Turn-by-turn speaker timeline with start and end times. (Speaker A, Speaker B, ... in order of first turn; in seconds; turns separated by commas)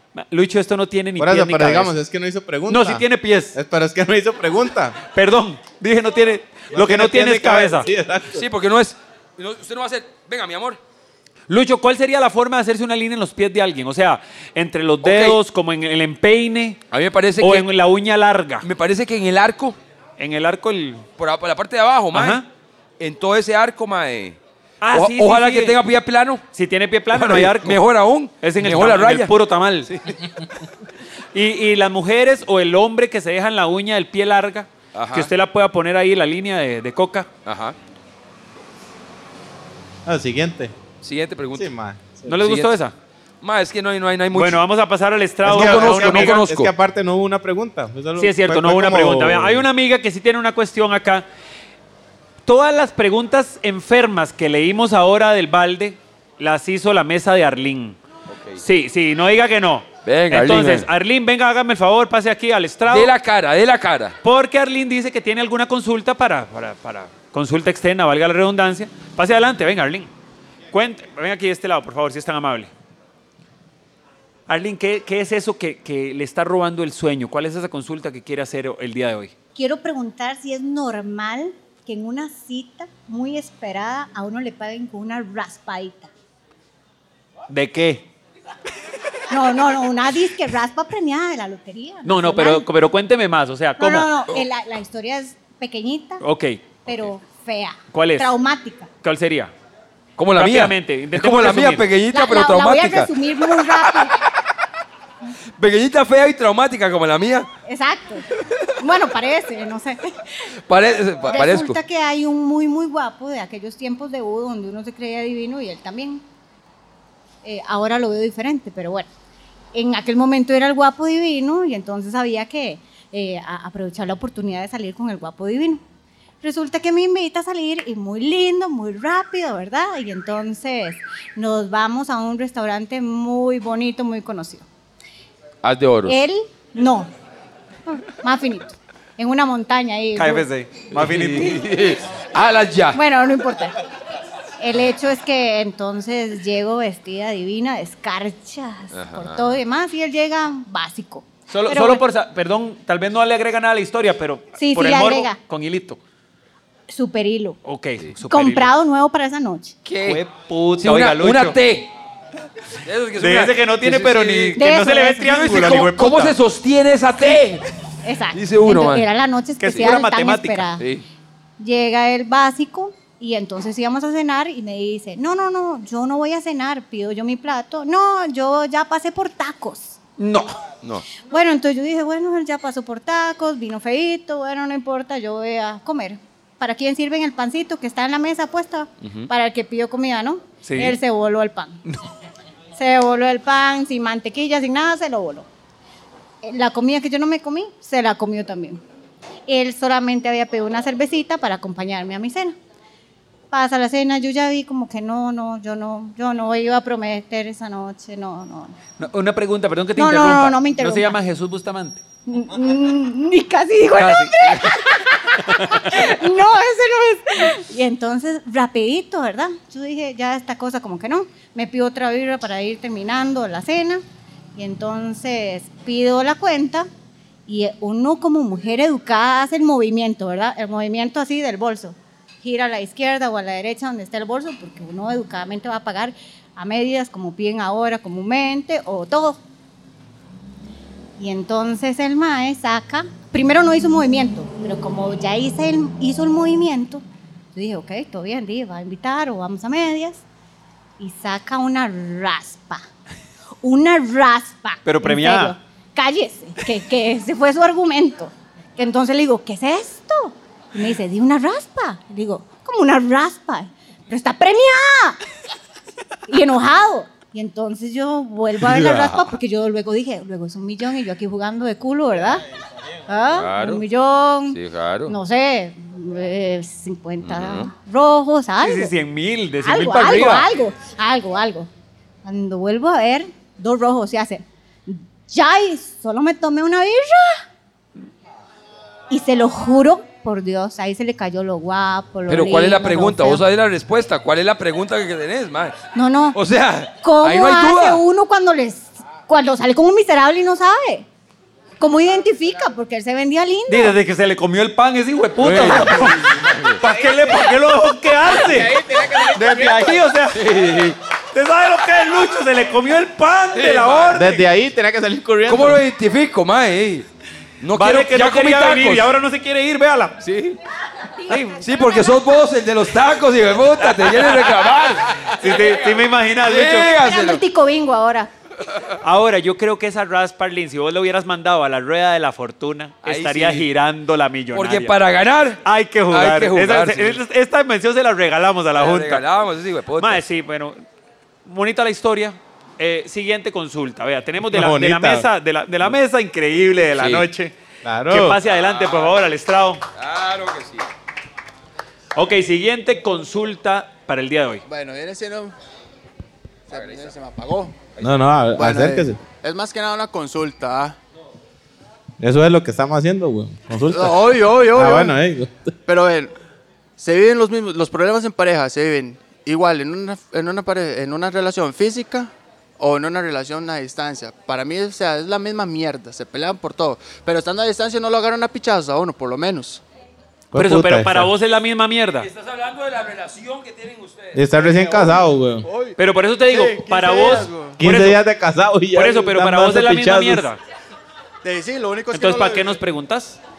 Speaker A: 0.1-1.9, Speaker B: 1.2-5.0, Speaker A: 2.7-3.5, Speaker A: 5.1-7.9, Speaker B: 6.7-8.4, Speaker C: 8.3-10.8, Speaker A: 11.5-16.8, Speaker C: 15.0-15.4, Speaker C: 16.9-17.7, Speaker A: 17.4-18.6, Speaker C: 18.6-19.8, Speaker A: 20.2-21.1, Speaker C: 21.2-22.4, Speaker A: 22.1-22.4, Speaker C: 23.0-24.4, Speaker A: 24.8-25.8, Speaker C: 24.9-26.4, Speaker A: 26.5-27.8, Speaker C: 27.1-29.3, Speaker A: 28.4-29.9, Speaker C: 29.9-30.1, Speaker A: 31.3-37.3, Speaker C: 34.9-35.3, Speaker C: 37.4-37.7, Speaker B: 40.0-40.8, Speaker C: 41.0-41.7, Speaker B: 41.5-42.4, Speaker A: 42.3-42.9, Speaker C: 42.3-42.7, Speaker C: 43.4-44.6, Speaker A: 44.3-46.4, Speaker C: 45.4-46.7, Speaker B: 45.4-49.6, Speaker A: 48.2-51.2, Speaker A: 52.4-58.0, Speaker C: 58.3-58.6, Speaker A: 58.6-63.1, Speaker C: 60.0-60.9, Speaker C: 62.9-64.2, Speaker A: 64.2-70.1, Speaker A: 70.7-72.7, Speaker A: 74.5-79.3, Speaker D: 79.5-86.1, Speaker A: 87.5-88.0, Speaker D: 89.3-92.6, Speaker A: 92.0-94.1, Speaker D: 93.8-96.2, Speaker A: 96.2-96.6, Speaker D: 96.8-98.9, Speaker A: 97.9-98.3, Speaker A: 99.0-99.5, Speaker C: 100.2-104.0, Speaker A: 100.3-101.9, Speaker D: 102.1-104.1, Speaker C: 105.6-107.5, Speaker D: 107.7-108.2, Speaker D: 108.8-110.0, Speaker C: 110.7-111.8, Speaker D: 111.2-116.2, Speaker D: 117.4-119.1, Speaker D: 119.7-125.8, Speaker D: 126.4-134.7, Speaker C: 135.6-136.2, Speaker D: 136.0-137.1, Speaker D: 137.9-140.5, Speaker A: 140.2-141.6, Speaker C: 140.9-143.0, Speaker D: 142.9-143.8, Speaker D: 144.6-152.0, Speaker C: 148.9-149.6, Speaker A: 151.5-156.0, Speaker D: 154.6-155.4, Speaker D: 156.9-157.6, Speaker A: 157.6-158.7, Speaker D: 158.3-159.7, Speaker C: 159.8-160.2, Speaker A: 160.0-161.6, Speaker C: 160.8-161.9, Speaker C: 162.8-164.6, Speaker A: 163.2-166.4, Speaker D: 164.6-165.4, Speaker C: 165.2-167.6, Speaker D: 168.0-170.8, Speaker C: 168.3-169.0, Speaker A: 169.6-170.7, Speaker C: 170.8-171.0, Speaker D: 171.6-179.9, Speaker A: 180.2-180.5, Speaker D: 181.3-191.8, Speaker C: 189.0-189.3, Speaker A: 190.7-190.9, Speaker D: 192.8-195.4, Speaker D: 196.4-198.8, Speaker D: 199.5-202.5, Speaker D: 203.5-208.7, Speaker A: 209.0-212.0, Speaker D: 210.0-211.2, Speaker D: 212.3-224.0, Speaker A: 214.0-214.8, Speaker A: 215.5-216.1, Speaker D: 224.6-226.9, Speaker D: 227.5-239.4, Speaker D: 241.2-247.0, Speaker D: 247.5-250.2, Speaker D: 251.0-252.8, Speaker D: 253.6-265.2, Speaker A: 254.8-255.5, Speaker D: 266.3-272.4, Speaker C: 268.6-269.3, Speaker D: 273.1-278.9, Speaker C: 273.3-273.8, Speaker C: 274.5-275.1, Speaker C: 277.2-277.7, Speaker A: 278.6-280.5, Speaker D: 279.6-281.7, Speaker D: 282.2-287.4, Speaker D: 289.1-293.4, Speaker C: 292.3-295.8, Speaker D: 295.9-296.4, Speaker C: 296.3-298.0, Speaker D: 297.0-301.1, Speaker D: 301.8-303.9, Speaker A: 303.7-310.4, Speaker C: 305.4-306.8, Speaker C: 310.3-311.0, Speaker A: 311.3-314.4, Speaker C: 313.5-314.2, Speaker B: 314.1-315.8, Speaker C: 315.5-317.1, Speaker C: 317.6-319.1, Speaker A: 317.7-320.2, Speaker C: 320.2-320.6, Speaker A: 321.3-321.6, Speaker C: 321.6-327.4, Speaker A: 323.8-324.6, Speaker A: 325.2-326.9, Speaker D: 327.0-328.3, Speaker A: 329.0-335.0, Speaker C: 333.0-333.7, Speaker C: 334.5-337.2, Speaker A: 335.6-339.2, Speaker C: 338.8-340.2, Speaker A: 340.0-340.8, Speaker A: 341.4-347.5, Speaker B: 344.4-345.3, Speaker C: 347.0-347.2, Speaker B: 347.8-348.4, Speaker A: 348.1-349.8, Speaker C: 348.6-349.1, Speaker C: 349.9-350.9, Speaker A: 352.1-354.6, Speaker E: 354.6-355.5, Speaker E: 356.7-357.8, Speaker C: 356.7-357.1, Speaker B: 358.0-359.2, Speaker E: 358.5-361.0, Speaker B: 362.2-365.7, Speaker E: 363.8-365.1, Speaker E: 365.9-366.3, Speaker E: 367.0-379.8, Speaker B: 380.5-381.3, Speaker A: 380.5-382.3, Speaker C: 382.2-384.4, Speaker B: 384.3-385.6, Speaker E: 384.5-387.8, Speaker A: 386.0-388.2, Speaker B: 387.8-390.5, Speaker A: 388.9-390.6, Speaker E: 391.4-392.8, Speaker A: 392.1-393.4